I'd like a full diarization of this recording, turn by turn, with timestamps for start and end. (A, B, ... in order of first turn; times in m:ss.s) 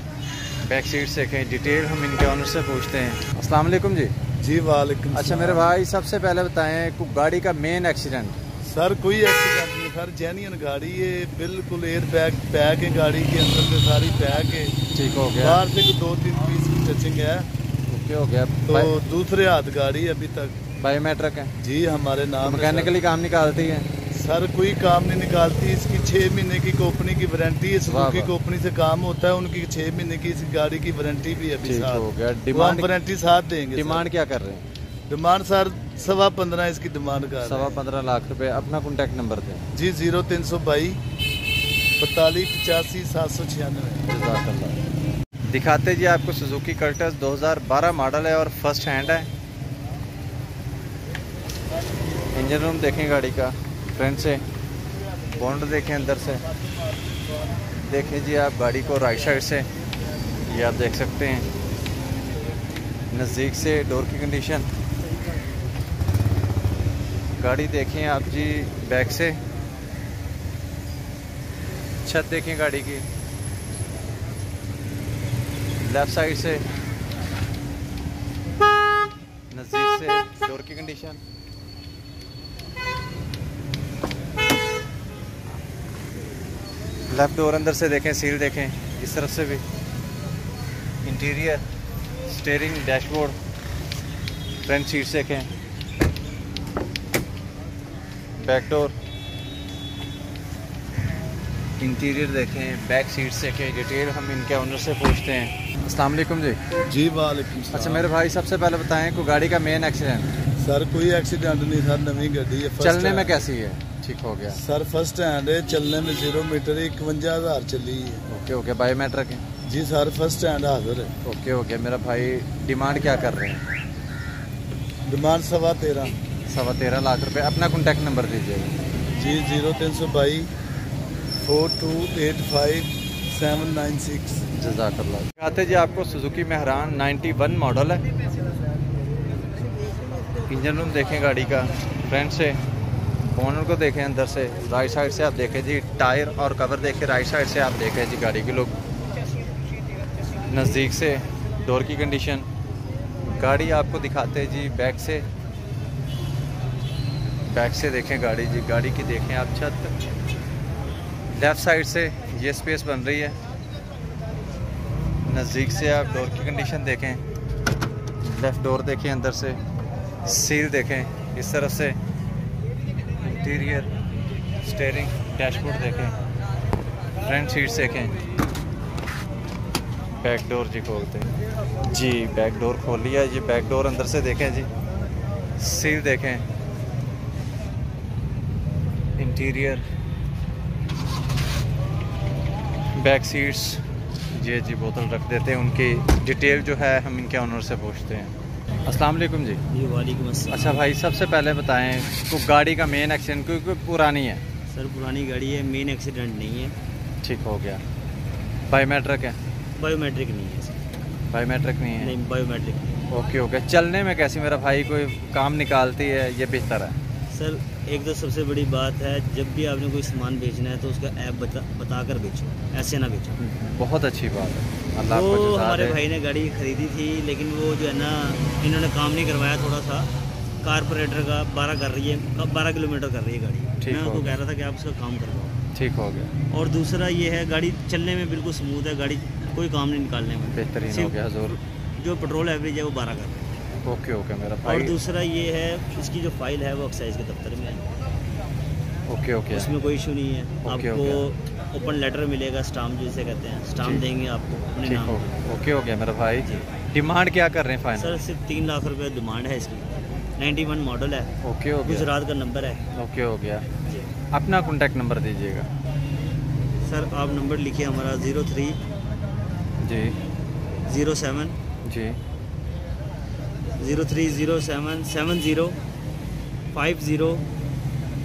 0:00.6-0:04.1 A
0:04.4-0:05.7 B
0:05.1-0:08.4 A
0:08.6-0:14.8 B
0:14.9-0:15.6 A
0:15.4-0:17.5 B
0:17.9-0:19.0 A
0:18.7-0:20.6 B
0:20.8-0:21.5 A
0:21.6-0:23.0 B
0:22.4-0:23.9 A
0:24.1-0:34.1 B
0:27.8-0:28.3 A
0:31.6-0:32.9 A
0:33.7-0:34.6 A
0:35.1-0:37.8 B
0:37.4-0:39.6 A
0:39.7-0:41.0 B
0:42.0-0:44.0 B
0:44.1-0:44.8 A
0:45.5-0:49.3 A
0:52.3-0:54.4 A
0:55.3-0:56.4 A
0:57.9-0:59.7 A
1:00.5-1:01.5 A
1:03.1-1:04.7 A
1:07.4-1:09.4 A
1:12.0-1:13.0 A
1:15.8-1:16.6 A
1:19.5-1:21.2 A
1:27.1-1:29.6 A
1:31.0-1:31.6 A
1:32.2-1:33.4 A
1:34.6-1:35.5 A
1:38.4-1:38.9 A
1:41.8-1:46.6 A
1:46.9-1:48.1 B
1:47.7-1:50.3 A
1:50.6-1:53.4 B
1:52.8-1:54.6 A
1:54.5-1:58.2 B
1:58.3-1:59.4 A
1:59.6-2:01.1 B
2:01.2-2:03.6 A
2:05.1-2:06.2 B
2:06.5-2:08.7 A
2:09.1-2:10.5 B
2:11.4-2:14.4 B
2:14.6-2:18.0 A
2:20.4-2:22.6 A
2:23.3-2:28.7 A
2:30.4-2:32.5 A
2:33.2-2:35.2 A
2:37.5-2:39.9 A
2:41.3-2:43.4 A
2:45.2-2:47.2 A
2:48.2-2:49.6 A
2:50.2-2:52.0 A
2:53.2-2:53.9 A
2:54.6-2:56.1 A
2:57.2-2:58.1 A
3:00.2-3:01.3 A
3:01.9-3:04.7 A
3:05.6-3:06.4 A
3:09.2-3:09.8 A
3:13.0-3:13.8 A
3:14.3-3:18.3 A
3:18.8-3:19.6 A
3:19.7-3:20.9 C
3:20.5-3:24.4 A
3:24.7-3:26.8 C
3:27.2-3:27.8 A
3:28.7-3:29.4 A
3:29.8-3:30.8 C
3:31.3-3:32.2 A
3:32.0-3:33.0 C
3:33.1-3:37.0 A
3:37.3-3:43.4 C
3:43.4-3:46.0 A
3:45.1-3:50.1 C
3:50.6-3:55.6 C
3:53.8-3:54.4 A
3:55.7-3:56.3 A
3:56.5-4:03.5 C
4:00.5-4:01.6 A
4:03.8-4:04.9 A
4:04.6-4:07.8 C
4:09.1-4:09.7 A
4:09.5-4:15.3 C
4:10.6-4:11.2 A
4:14.8-4:18.2 A
4:18.0-4:21.3 C
4:21.4-4:22.1 A
4:21.8-4:22.8 C
4:22.9-4:23.6 A
4:24.3-4:25.7 A
4:26.8-4:28.8 C
4:29.8-4:30.1 A
4:30.9-4:31.5 C
4:31.8-4:32.2 A
4:33.8-4:35.8 C
4:36.7-4:37.4 C